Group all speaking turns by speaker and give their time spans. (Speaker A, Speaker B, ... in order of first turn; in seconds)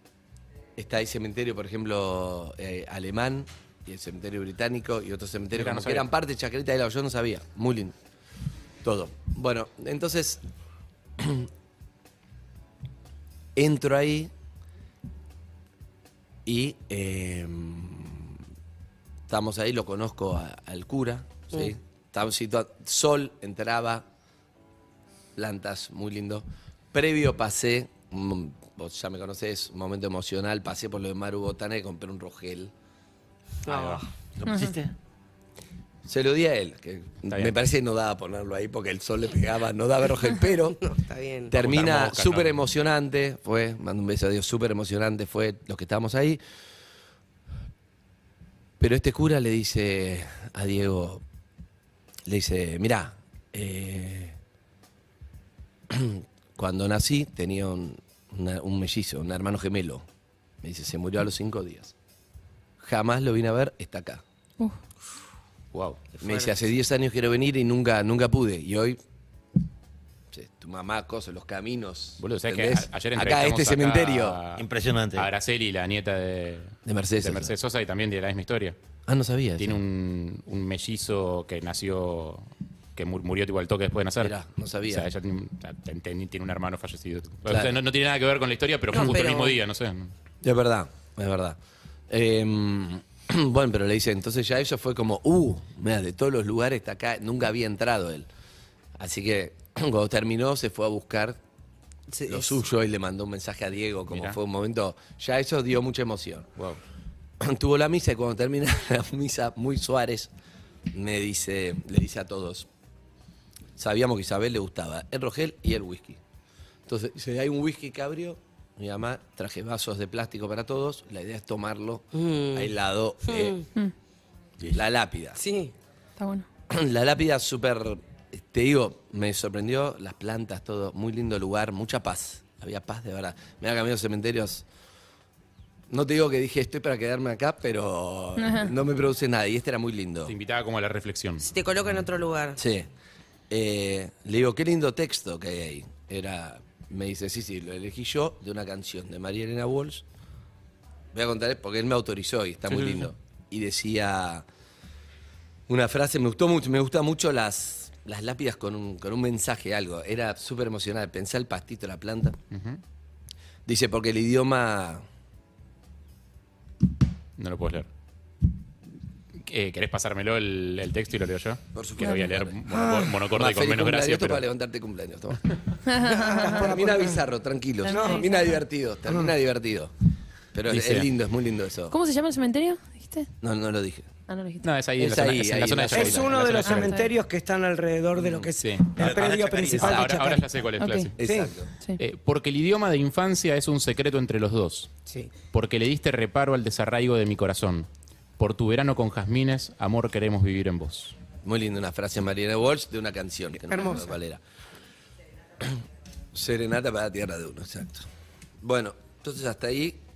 Speaker A: 0.8-8.0, 8.8-10.4, 11.2-11.5, 13.6-14.3, 16.4-18.4, 19.3-24.1, 25.4-32.7, 36.0-40.8, 41.5-46.4, 48.8-51.2, 52.3-54.4, 55.9-60.1, 60.6-61.9, 62.8-64.2, 66.2-69.0, 70.3-74.4, 76.9-77.5, 79.1-79.8, 84.2-85.1, 87.5-87.8, 90.4-91.6, 92.1-98.3, 99.0-101.4, 102.3-106.6, 107.4-110.3, 110.9-112.7, 113.8-116.2, 116.9-123.5, 124.7-125.4, 126.7-134.7, 135.9-140.3, 142.6-142.9, 143.5-150.1, 151.1-154.4, 155.7-162.4, 163.7-165.0, 171.7-175.5, 176.4-179.9, 180.5-182.0, 183.4-184.1, 185.0-186.7, 189.7-190.4, 191.2-191.7, 201.4-204.4, 206.3-208.1, 208.6-210.0
Speaker B: 5.5-6.1, 33.7-34.0, 41.5-42.5, 65.7-66.0, 72.2-74.6, 75.1-78.8, 79.6-82.5, 83.0-84.3, 84.9-90.1, 104.1-104.4, 140.3-141.5, 152.7-153.0, 162.5-162.8, 167.4-167.9, 169.4-174.4, 180.7-181.1, 184.6-186.9, 188.6-188.8, 189.8-191.1, 192.0-194.9, 195.5-201.2
Speaker C: 33.7-34.0, 40.8-41.5, 66.2-66.5, 88.9-89.6, 102.1-102.6, 122.1-122.7, 123.3-123.6, 125.4-125.7, 141.4-142.6
Speaker D: 34.4-34.9, 74.6-75.3, 189.0-190.2
Speaker E: 126.2-126.5, 138.4-138.7, 172.0-172.2, 175.9-176.7, 177.8-178.6, 181.9-183.3, 184.3-184.7, 186.7-187.1, 190.8-191.1
Speaker F: 176.4-177.2, 177.9-178.6, 185.9-190.4, 191.2-191.5, 203.7-204.0